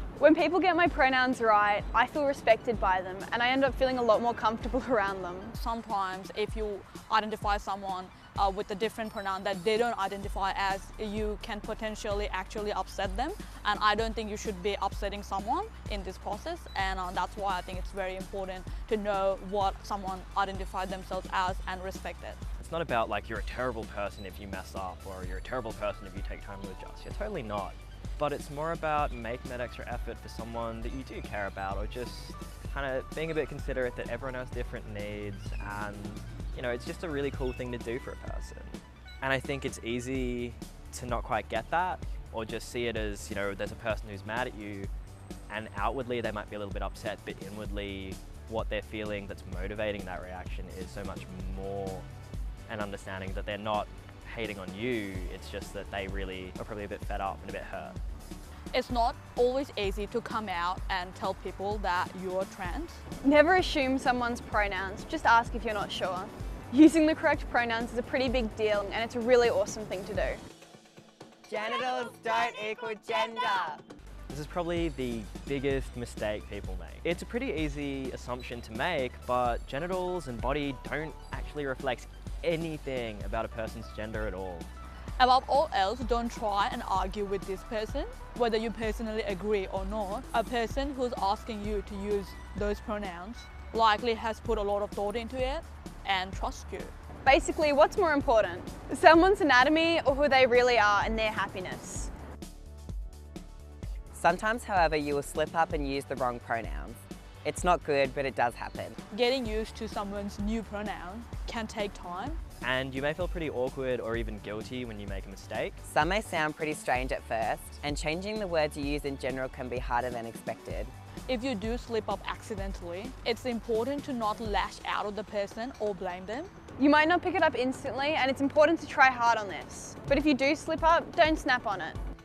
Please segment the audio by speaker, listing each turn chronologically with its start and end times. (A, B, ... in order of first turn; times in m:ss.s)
0:00.2-0:05.5 A
0:05.5-0:22.4 B
0:22.6-0:44.9 C
0:45.5-0:52.0 C
0:52.7-0:58.0 C
0:58.7-1:03.1 B
1:03.2-1:10.4 A
1:11.5-1:13.8 D
1:14.3-1:24.7 C
1:25.2-1:36.9 B
1:37.2-1:42.1 A
1:44.1-1:49.0 D
1:49.1-1:52.4 B
1:52.6-1:55.8 C
1:55.8-2:00.9 D
2:01.3-2:06.5 B
2:06.8-2:12.0 A